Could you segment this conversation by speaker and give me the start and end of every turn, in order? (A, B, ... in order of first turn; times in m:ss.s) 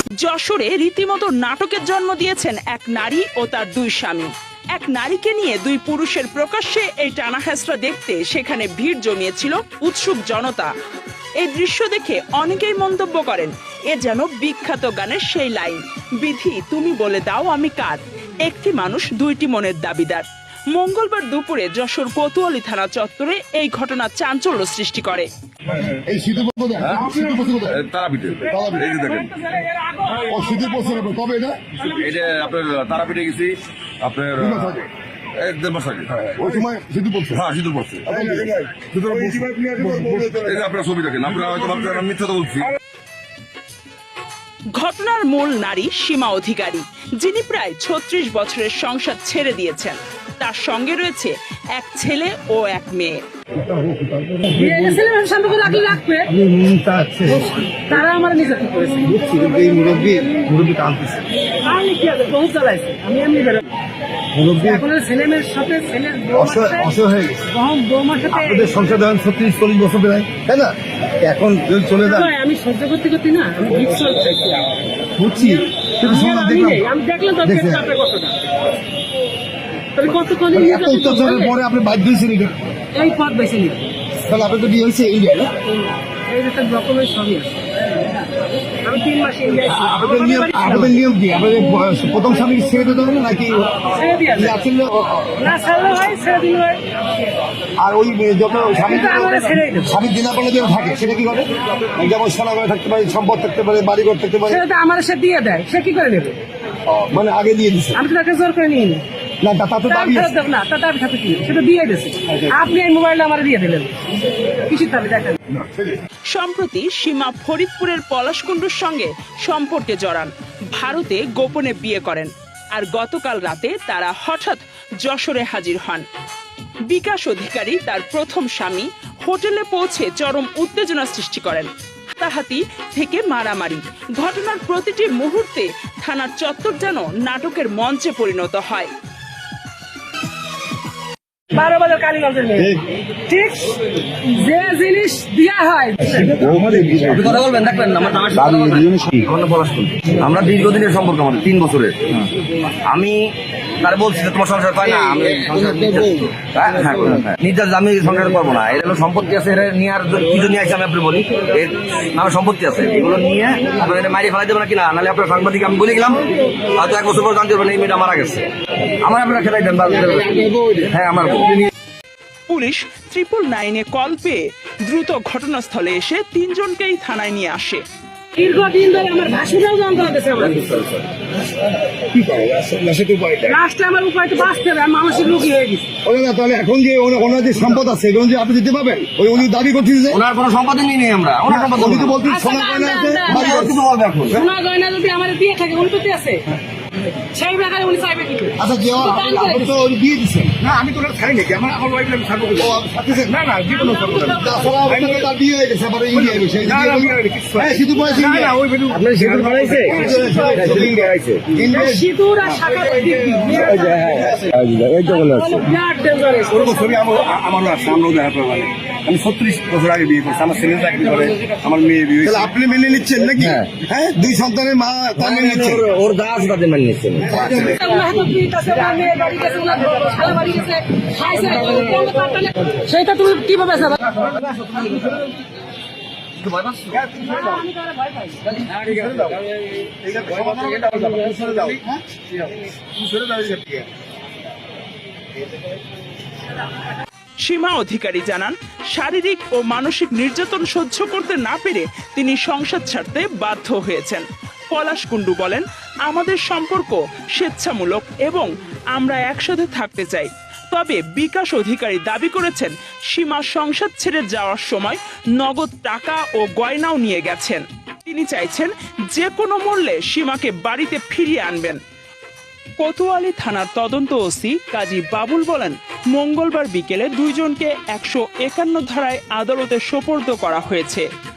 0:00.2-0:10.7 A
0:11.4-0:25.3 A
0:25.8-0:27.8 B
0:26.8-0:29.3 C
0:28.4-0:29.0 B
0:29.1-0:30.5 D
0:30.3-0:31.7 B
0:31.9-0:33.5 E
0:32.2-0:32.6 C
0:34.0-0:34.8 C
0:34.4-0:34.8 B
0:35.4-0:36.3 C
0:36.1-0:37.4 B
0:37.3-0:38.3 C
0:38.0-0:40.6 B
0:39.0-0:40.4 F
0:40.4-0:42.7 C
0:44.7-0:53.2 A
0:53.5-0:55.0 B
0:54.5-0:56.3 D
0:55.7-0:58.0 B
0:57.3-0:59.1 D
0:59.0-1:01.2 B
1:01.6-1:03.8 D
1:04.3-1:04.8 B
1:04.6-1:07.0 D
1:06.3-1:07.4 B
1:07.5-1:08.8 D
1:08.3-1:12.3 B
1:12.0-1:14.8 D
1:15.2-1:16.8 B
1:15.4-1:18.4 D
1:17.4-1:17.8 B
1:20.0-1:21.5 D
1:20.5-1:22.6 B
1:22.9-1:24.0 D
1:24.1-1:25.5 B
1:26.3-1:27.6 D
1:28.8-1:31.0 D
1:29.7-1:35.5 B
1:33.9-1:34.6 D
1:35.4-1:36.8 D
1:37.8-1:44.6 B
1:38.8-1:39.9 D
1:44.5-1:46.4 D
1:46.9-1:48.0 B
1:48.0-1:49.0 D
1:49.4-1:50.3 B
1:49.9-1:54.0 D
1:54.7-1:55.4 D
1:55.6-1:56.0 B
1:56.3-2:06.0 A
2:06.9-2:18.9 A
2:21.5-2:26.4 D
2:26.2-2:27.3 B
2:27.0-2:32.3 E
2:28.6-2:29.0 B
2:32.8-2:51.7 E
2:34.8-2:36.3 B
2:52.5-2:57.8 A
2:58.4-3:00.7 D
3:00.4-3:01.1 E
3:02.1-3:03.6 B
3:03.5-3:05.9 D
3:06.0-3:10.2 B
3:10.1-3:12.2 E
3:11.5-3:13.9 B
3:12.2-3:13.7 D
3:13.3-3:14.4 E
3:14.3-3:16.6 D
3:17.1-3:19.7 D
3:18.6-3:20.7 B
3:20.6-3:25.2 F
3:22.6-3:23.4 B
3:23.7-3:24.3 D
3:24.3-3:28.6 B
3:26.1-3:31.1 F
3:28.9-3:31.5 E
3:29.8-3:32.0 B
3:31.7-3:34.0 D
3:33.6-3:35.7 E
3:35.0-3:37.1 D
3:36.7-3:42.4 F
3:39.6-3:42.1 E
3:42.2-3:45.9 B
3:43.4-3:43.7 E
3:45.2-3:47.8 E
3:47.3-3:47.8 B
3:47.5-3:54.1 D
3:54.2-3:55.1 E
3:54.5-3:55.0 B
3:56.4-3:57.1 E
3:57.1-3:58.4 D
3:58.5-3:59.3 E
3:58.8-3:59.4 B
4:00.0-4:01.8 B
4:00.5-4:01.2 E
4:03.0-4:03.7 B
4:07.4-4:31.8 A
4:32.8-4:41.1 A